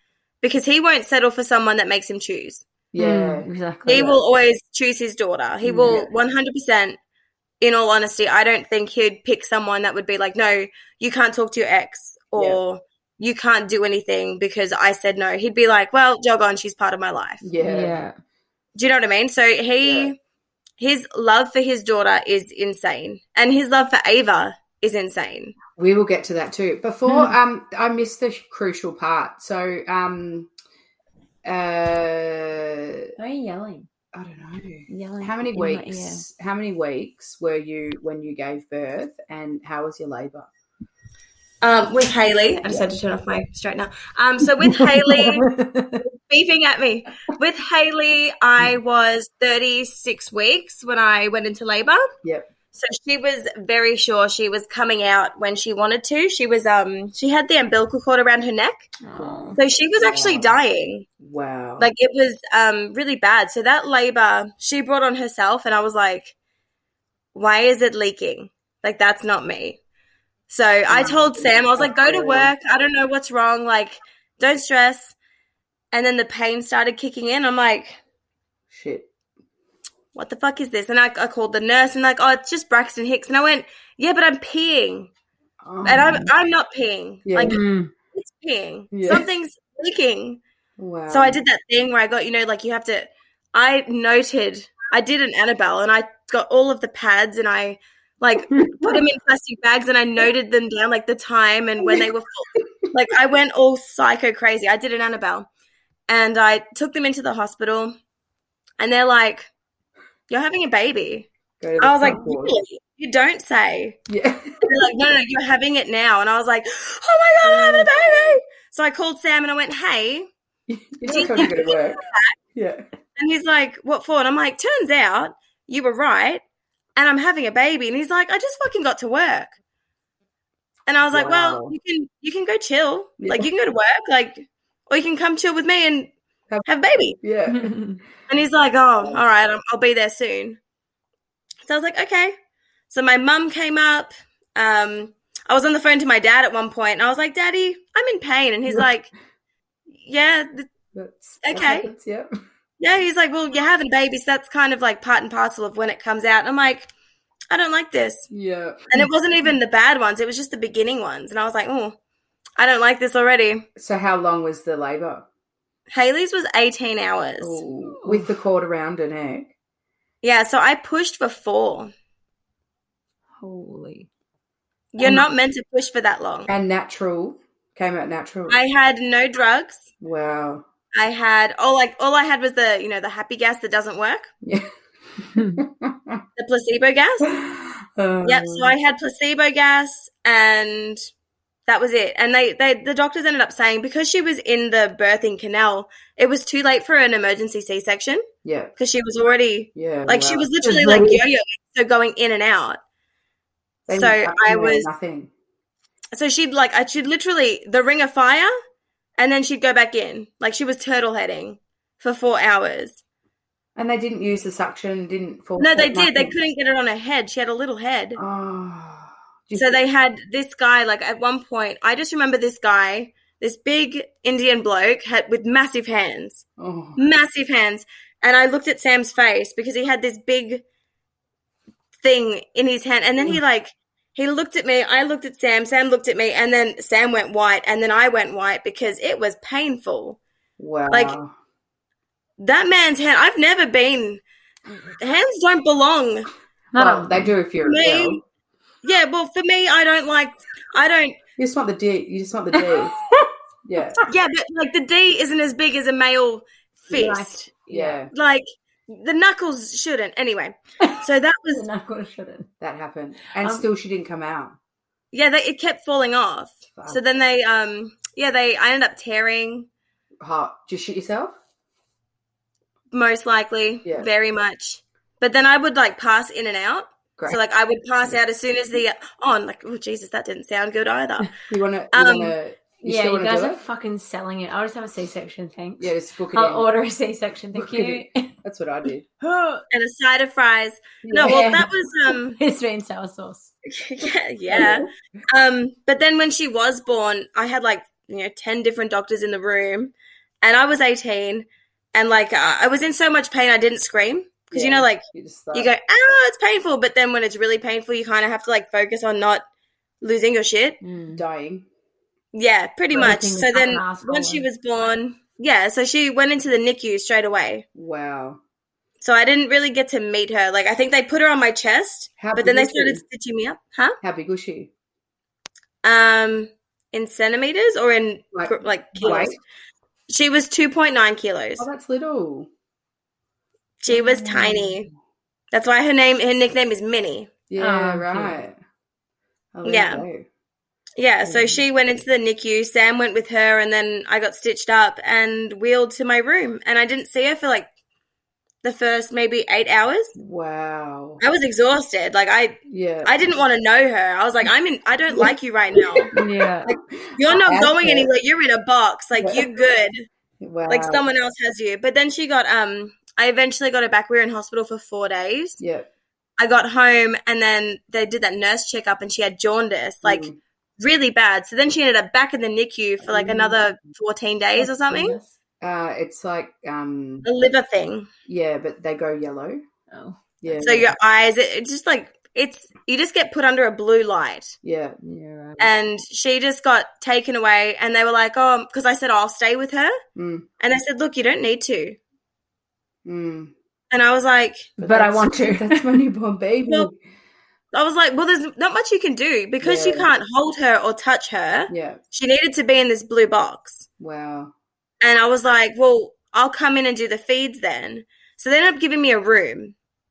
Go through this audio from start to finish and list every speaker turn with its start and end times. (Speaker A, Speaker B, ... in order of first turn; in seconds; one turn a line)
Speaker A: 0.4-2.6
Speaker B: 2.9-4.2
Speaker C: 3.0-4.1
Speaker A: 3.9-7.0
Speaker B: 5.7-6.1
Speaker A: 7.6-17.5
Speaker B: 17.4-18.0
Speaker C: 17.6-18.1
Speaker A: 18.8-20.1
Speaker B: 19.8-20.1
Speaker A: 20.8-25.6
Speaker B: 25.8-30.5
Speaker C: 27.1-27.4
Speaker B: 31.4-33.1
Speaker C: 33.2-33.9
Speaker B: 34.1-40.5
Speaker C: 34.9-36.2
Speaker A: 41.6-45.5
Speaker B: 42.6-42.9
Speaker C: 44.6-46.0
Speaker A: 46.0-52.1
Speaker A: 52.7-58.9
Speaker C: 59.0-59.6
Speaker B: 59.2-60.5
Speaker A: 59.6-61.1
Speaker B: 61.2-61.9
Speaker A: 61.8-66.3
Speaker A: 67.3-69.8
Speaker A: 70.5-75.2
Speaker B: 70.9-72.5
Speaker A: 75.9-78.0
Speaker B: 78.7-79.1
Speaker A: 80.1-85.1
Speaker B: 85.6-86.3
Speaker A: 85.8-87.6
Speaker B: 87.3-87.6
Speaker C: 87.4-87.9
Speaker A: 88.1-90.4
Speaker B: 88.9-89.3
Speaker B: 90.8-91.4
Speaker A: 91.1-105.5
Speaker C: 98.5-98.9
Speaker A: 106.1-108.0
Speaker A: 108.8-109.5
Speaker A: 110.3-111.3
Speaker B: 111.6-112.6
Speaker A: 111.8-114.0
Speaker B: 114.1-114.7
Speaker A: 114.6-120.3
Speaker B: 117.5-117.9
Speaker B: 120.7-122.0
Speaker A: 121.1-122.3
Speaker B: 122.5-122.8
Speaker A: 123.2-126.4
Speaker A: 127.0-129.5
Speaker A: 130.9-136.1
Speaker B: 131.1-131.8
Speaker B: 133.2-133.5
Speaker A: 136.7-137.2
Speaker B: 137.2-137.8
Speaker C: 137.5-138.0
Speaker A: 138.3-140.6
Speaker A: 141.7-142.3
Speaker A: 142.9-149.1
Speaker A: 149.9-150.7
Speaker B: 150.9-152.3
Speaker A: 151.4-151.9
Speaker A: 152.8-156.9
Speaker A: 157.5-158.3
Speaker B: 158.3-158.9
Speaker A: 158.9-161.9
Speaker A: 162.6-163.7
Speaker B: 163.8-165.2
Speaker A: 165.9-167.6
Speaker B: 167.4-169.5
Speaker C: 168.0-168.3
Speaker A: 170.2-171.9
Speaker C: 173.4-174.1
Speaker A: 174.9-176.5
Speaker B: 176.5-178.6
Speaker A: 178.5-179.9
Speaker B: 180.0-180.7
Speaker A: 180.9-184.3
Speaker B: 184.4-184.7
Speaker C: 185.3-185.6
Speaker B: 185.3-186.2
Speaker A: 186.4-187.3
Speaker B: 187.2-188.7
Speaker A: 188.2-191.1
Speaker A: 191.7-198.2
Speaker B: 198.4-198.7
Speaker A: 198.8-202.8
Speaker B: 199.8-201.2
Speaker B: 203.9-205.3
Speaker A: 203.9-204.9
Speaker A: 206.1-208.5
Speaker A: 209.2-213.0
Speaker B: 213.8-216.3
Speaker A: 215.6-218.2
Speaker B: 218.2-219.8
Speaker A: 219.6-226.4
Speaker B: 226.6-227.0
Speaker A: 227.0-230.6
Speaker A: 232.0-240.2
Speaker B: 240.6-241.3
Speaker A: 240.9-241.2
Speaker A: 242.4-244.2
Speaker A: 245.0-246.3
Speaker C: 246.7-247.3
Speaker B: 246.8-248.2
Speaker A: 247.7-248.2
Speaker A: 248.8-251.2
Speaker B: 251.4-253.0
Speaker C: 252.6-253.3
Speaker B: 253.7-254.0
Speaker A: 254.0-257.4
Speaker C: 256.9-258.0
Speaker B: 257.7-258.1
Speaker A: 258.1-261.7
Speaker C: 261.5-262.5
Speaker B: 262.6-264.6
Speaker C: 263.4-263.7
Speaker A: 265.1-269.7
Speaker B: 266.8-267.0
Speaker B: 270.2-271.4
Speaker A: 272.9-281.3
Speaker B: 281.5-283.6
Speaker A: 281.9-282.4
Speaker C: 282.8-288.3
Speaker B: 285.8-286.7
Speaker B: 287.6-289.1
Speaker C: 289.2-289.6
Speaker A: 289.7-292.4
Speaker B: 291.0-291.6
Speaker C: 291.2-291.7
Speaker C: 292.4-293.5
Speaker A: 293.7-305.0
Speaker B: 294.5-294.9
Speaker B: 304.5-305.7
Speaker A: 305.5-309.4
Speaker A: 310.0-310.8
Speaker C: 310.8-311.2
Speaker B: 311.1-311.7
Speaker A: 312.3-317.6
Speaker C: 312.9-314.5
Speaker B: 317.8-318.4
Speaker A: 319.0-324.0
Speaker B: 322.2-323.0
Speaker B: 324.0-324.7
Speaker A: 325.8-329.4
Speaker B: 328.3-329.4
Speaker C: 329.0-329.3
Speaker A: 330.1-331.7
Speaker B: 331.6-332.5
Speaker A: 333.8-334.9
Speaker C: 333.9-334.7
Speaker B: 334.3-334.6
Speaker A: 335.5-337.3
Speaker B: 337.5-338.6
Speaker C: 337.6-338.4
Speaker B: 339.6-340.2
Speaker A: 339.6-340.1
Speaker A: 341.0-347.7
Speaker B: 341.2-341.6
Speaker A: 348.6-350.1
Speaker B: 350.2-351.2
Speaker A: 351.2-356.1
Speaker B: 352.7-353.1
Speaker B: 355.1-358.1
Speaker C: 356.1-356.8
Speaker A: 357.2-360.1
Speaker B: 359.2-359.5
Speaker B: 360.4-361.0
Speaker A: 360.7-365.6
Speaker B: 365.6-365.9
Speaker A: 366.4-370.3
Speaker B: 370.0-370.4
Speaker A: 370.8-375.2
Speaker B: 373.1-373.5
Speaker C: 374.6-375.4
Speaker B: 375.6-377.3
Speaker A: 377.2-378.1
Speaker B: 378.3-379.6
Speaker C: 379.9-380.6
Speaker B: 380.4-380.9
Speaker A: 380.6-384.6
Speaker B: 384.6-385.1
Speaker C: 385.0-385.7
Speaker A: 385.6-390.0
Speaker B: 390.2-390.5
Speaker A: 390.6-392.0
Speaker B: 393.1-393.5
Speaker A: 393.9-394.7
Speaker C: 394.8-396.0
Speaker B: 394.8-396.9
Speaker A: 397.7-403.9
Speaker B: 399.6-400.1
Speaker B: 401.7-402.0
Speaker B: 404.0-404.5
Speaker A: 405.0-409.8